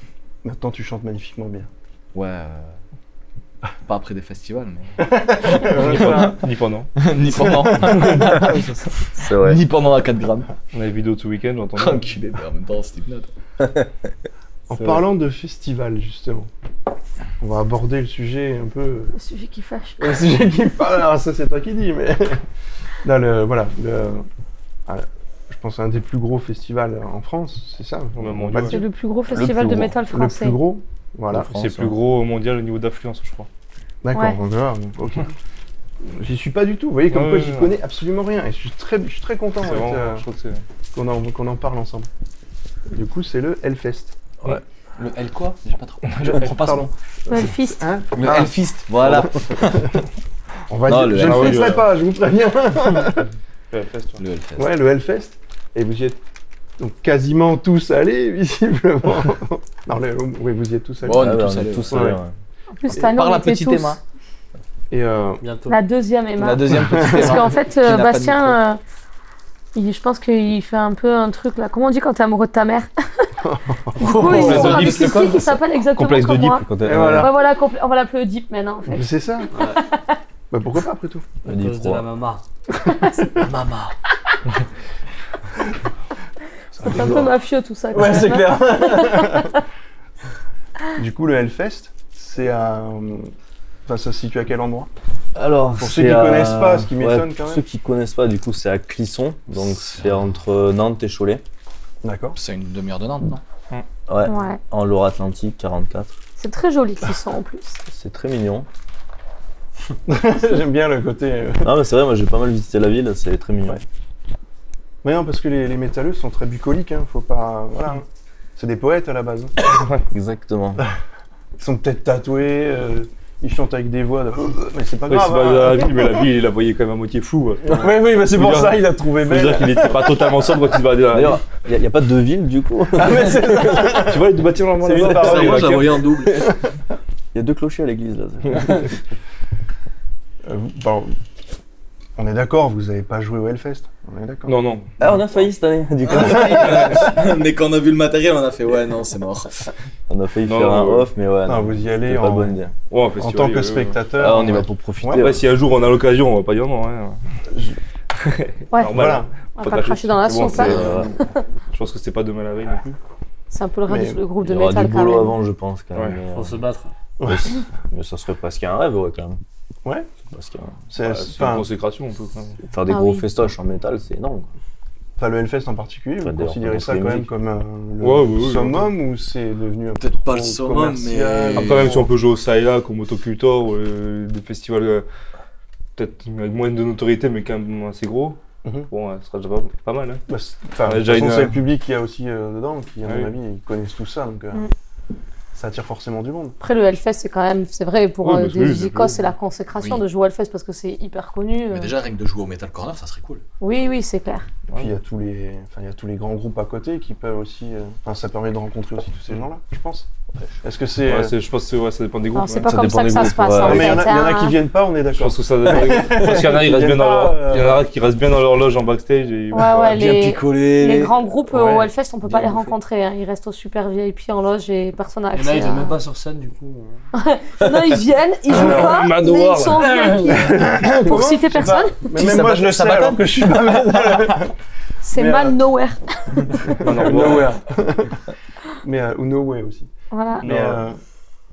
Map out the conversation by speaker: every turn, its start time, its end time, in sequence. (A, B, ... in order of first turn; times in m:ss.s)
0:00.4-0:01.7 A
0:02.1-0:02.8 B
0:03.8-0:06.3 B
0:05.0-0:06.4 A
0:05.6-0:06.9 C
0:07.0-0:10.5 B
0:07.3-0:08.9 A
0:09.2-0:09.6 D
0:10.7-0:12.1 C
0:11.8-0:13.3 B
0:13.6-0:13.9 D
0:14.7-0:16.5 A
0:17.4-0:19.1 A
0:19.1-0:20.2 E
0:20.0-0:22.4 A
0:23.0-0:24.2 A
0:24.9-0:28.8 A
0:28.1-0:28.8 C
0:28.6-0:30.6 E
0:29.3-0:30.0 D
0:29.6-0:31.5 A
0:31.3-0:33.5 C
0:31.4-0:32.0 D
0:34.0-0:35.3 A
0:34.1-0:34.4 E
0:36.0-0:40.2 A
0:37.1-0:37.7 C
0:39.6-0:40.6 C
0:40.9-0:42.1 A
0:42.9-0:44.1 A
0:44.4-0:46.9 B
0:46.2-0:49.8 A
0:47.3-0:47.9 E
0:48.1-0:49.9 B
0:50.7-0:53.3 A
0:50.8-0:51.8 D
0:51.1-0:51.8 C
0:53.7-0:54.2 C
0:54.2-0:54.7 B
0:54.6-0:56.2 A
0:56.8-1:02.2 A
1:01.0-1:02.2 B
1:01.1-1:02.3 D
1:02.8-1:04.0 E
1:02.9-1:04.0 B
1:04.9-1:05.4 A
1:05.4-1:05.8 F
1:05.7-1:08.8 E
1:06.4-1:08.6 B
1:06.8-1:07.3 A
1:09.7-1:12.9 E
1:13.4-1:14.0 A
1:14.0-1:15.6 B
1:14.0-1:19.0 E
1:14.2-1:15.2 C
1:16.0-1:16.6 C
1:16.6-1:17.3 D
1:16.8-1:17.3 A
1:18.9-1:19.5 A
1:19.7-1:20.2 E
1:20.5-1:21.3 A
1:21.4-1:22.0 D
1:21.4-1:22.4 F
1:22.8-1:23.4 E
1:23.4-1:23.9 B
1:26.7-1:27.3 A
1:26.8-1:29.6 E
1:27.9-1:29.5 A
1:31.0-1:33.3 A
1:33.8-1:34.9 A
1:35.3-1:41.4 D
1:35.8-1:37.6 A
1:39.6-1:40.1 B
1:42.0-1:42.4 A
1:42.4-1:43.4 B
1:44.1-1:46.2 D
1:44.2-1:44.6 E
1:46.4-1:47.8 E
1:47.9-1:48.7 D
1:50.1-1:51.7 A
1:51.6-1:53.8 D
1:55.0-1:59.6 A
2:00.1-2:00.8 D
2:01.6-2:06.2 A
2:05.1-2:11.4 C
2:07.6-2:10.5 A
2:11.1-2:13.9 D
2:12.9-2:16.6 A
2:13.8-2:16.0 C
2:15.0-2:16.4 B
2:17.3-2:18.9 D
2:20.4-2:21.1 A
2:22.2-2:24.6 A
2:24.4-2:24.8 C
2:25.0-2:27.0 D
2:26.0-2:29.7 B
2:26.6-2:27.0 C
2:30.1-2:32.7 D
2:30.4-2:31.1 C
2:31.4-2:32.6 A
2:32.9-2:34.1 C
2:33.2-2:35.3 A
2:34.2-2:35.4 D
2:35.2-2:37.2 C
2:37.5-2:37.8 A
2:38.2-2:41.0 C
2:38.7-2:39.0 E
2:38.9-2:39.3 A
2:39.6-2:41.4 E
2:40.5-2:41.1 D
2:41.7-2:43.0 C
2:43.5-2:45.3 E
2:43.9-2:44.2 A
2:44.4-2:46.6 D
2:46.3-2:46.9 F
2:47.2-2:47.5 A
2:47.2-2:49.4 D
2:50.3-2:50.9 D
2:50.9-2:51.7 A
2:51.0-2:52.6 C
2:52.7-2:54.5 D
2:52.9-2:53.2 E
2:55.2-3:02.1 A
2:56.2-2:57.3 D
2:58.0-2:58.9 C
3:00.0-3:02.0 B
3:01.5-3:05.0 C
3:06.0-3:08.4 C
3:08.9-3:10.2 C
3:10.3-3:14.6 A
3:10.8-3:11.6 C
3:13.0-3:13.3 C
3:15.5-3:16.5 A
3:16.6-3:21.9 E
3:18.2-3:19.2 C
3:19.8-3:20.0 B
3:21.7-3:23.4 B
3:23.6-3:24.5 E
3:24.7-3:30.1 A
3:30.6-3:31.3 A
3:31.0-3:33.2 C
3:32.3-3:34.6 E
3:32.6-3:34.0 D
3:33.6-3:37.8 A
3:35.1-3:39.9 C
3:35.8-3:36.7 D
3:39.5-3:46.0 E
3:39.7-3:41.2 B
3:41.5-3:41.9 A
3:42.2-3:42.7 B
3:45.3-3:47.0 F
3:47.1-3:52.1 E
3:48.5-3:48.9 A
3:48.5-3:50.2 C
3:50.2-3:54.5 A
3:52.1-3:54.4 B
3:55.0-3:56.5 E
3:55.1-3:55.6 A
3:56.6-3:58.2 A
3:56.8-3:57.6 C
3:58.8-3:59.9 A
4:00.1-4:00.5 E
4:00.4-4:00.8 C
4:00.4-4:01.0 A